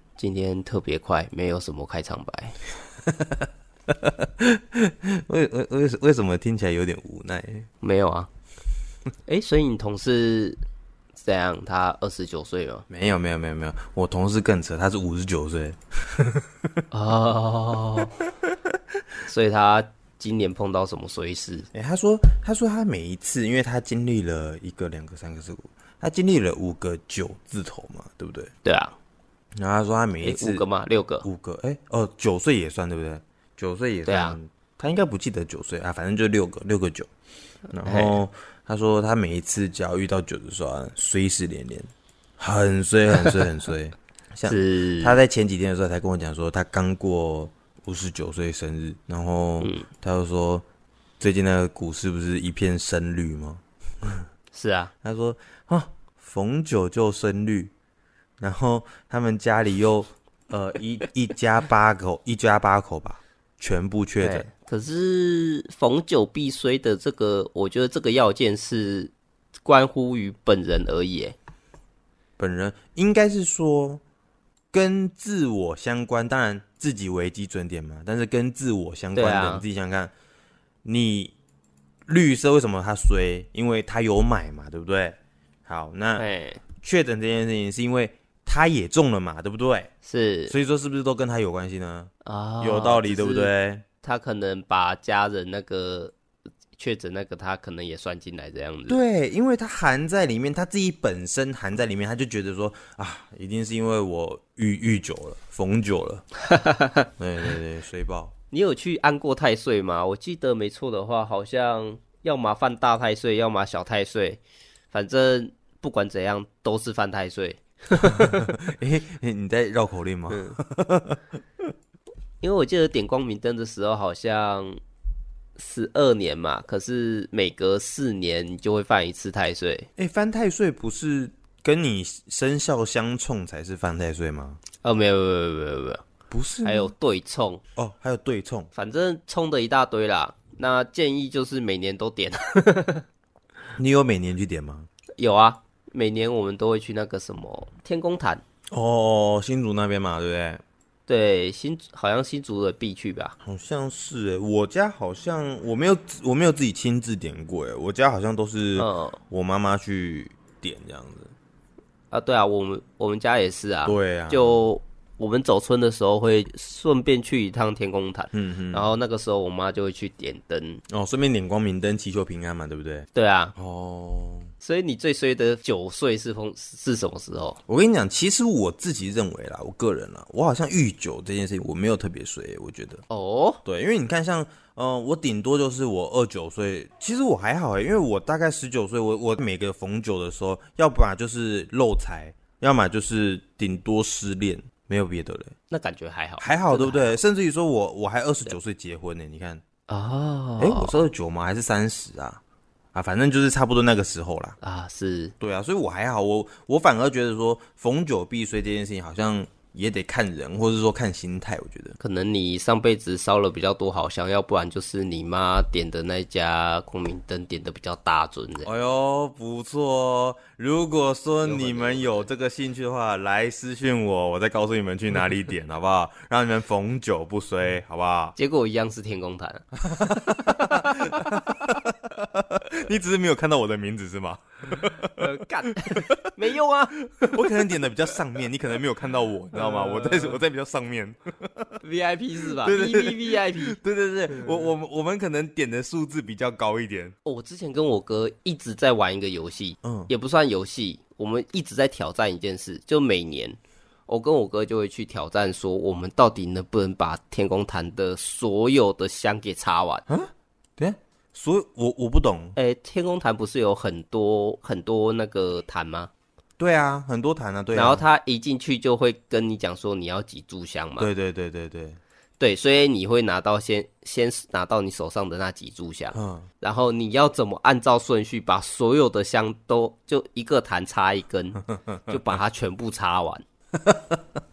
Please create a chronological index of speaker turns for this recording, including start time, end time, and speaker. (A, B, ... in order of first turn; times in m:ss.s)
0:00.2-0:02.6 A
0:03.1-0:07.7 B
0:07.8-0:08.3 A
0:09.3-0:10.6 A
0:11.2-0:12.8 A
0:12.9-0:16.5 B
0:16.9-0:18.2 A
0:19.3-0:21.7 A
0:21.7-0:28.5 B
0:28.6-0:28.9 A
0:29.6-0:30.6 B
0:30.2-0:31.3 A
0:31.2-0:37.1 B
0:34.1-0:34.4 A
0:37.7-0:50.6 B
0:37.8-0:38.2 A
0:44.5-0:45.2 A
0:49.6-0:49.9 A
0:51.2-0:54.3 B
0:54.5-0:54.9 A
0:55.0-0:57.7 B
0:58.4-1:04.5 B
1:04.2-1:09.1 A
1:09.6-1:11.4 A
1:12.4-1:14.0 B
1:14.7-1:20.1 B
1:19.2-1:19.6 A
1:20.8-1:21.3 B
1:22.1-1:26.2 B
1:26.2-1:26.6 A
1:26.8-1:29.9 B
1:30.0-1:30.6 A
1:30.5-1:33.8 B
1:32.2-1:33.5 A
1:34.0-1:36.1 A
1:36.8-1:39.0 A
1:38.9-1:46.2 B
1:46.5-1:47.1 A
1:47.2-1:48.3 B
1:48.5-1:54.4 A
1:54.9-1:58.5 A
1:58.0-2:01.2 B
2:00.3-2:00.6 A
2:02.4-2:04.8 A
2:05.6-2:09.9 A
2:10.0-2:14.6 B
2:14.8-2:16.0 A
2:16.3-2:16.9 B
2:16.6-2:17.6 A
2:17.8-2:18.7 B
2:18.8-2:23.0 A
2:23.8-2:24.9 B
2:25.2-2:28.4 A
2:28.7-2:30.6 B
2:31.1-2:33.4 A
2:33.4-2:41.3 B
2:38.8-2:39.2 A
2:42.1-2:50.8 A
2:43.9-2:44.6 B
2:48.3-2:48.9 B
2:50.9-2:54.5 B
2:53.2-2:53.6 A
2:54.6-2:57.6 A
2:57.7-3:03.0 B
3:03.1-3:03.6 A
3:03.6-3:15.5 B
3:15.7-3:17.1 A
3:16.4-3:19.6 B
3:19.9-3:20.9 A
3:20.6-3:22.4 B
3:22.9-3:24.6 B
3:24.6-3:25.3 A
3:25.4-3:32.0 B
3:32.0-3:38.7 A
3:38.6-3:48.4 B
3:41.4-3:42.3 A
3:48.4-3:51.7 A
3:49.8-3:56.3 B
3:55.1-3:57.6 A
3:57.1-4:01.8 B
3:59.6-4:00.4 A
4:01.8-4:03.8 A
4:02.5-4:07.2 B
4:04.3-4:04.7 A
4:07.2-4:20.0 A
4:09.8-4:10.1 B
4:20.1-4:22.6 B
4:22.6-4:26.1 A
4:26.6-4:28.0 B
4:27.7-4:31.1 A
4:31.0-4:32.0 B
4:32.4-4:43.4 A
4:36.1-4:36.5 B
4:41.9-4:42.4 B
4:43.8-4:44.2 B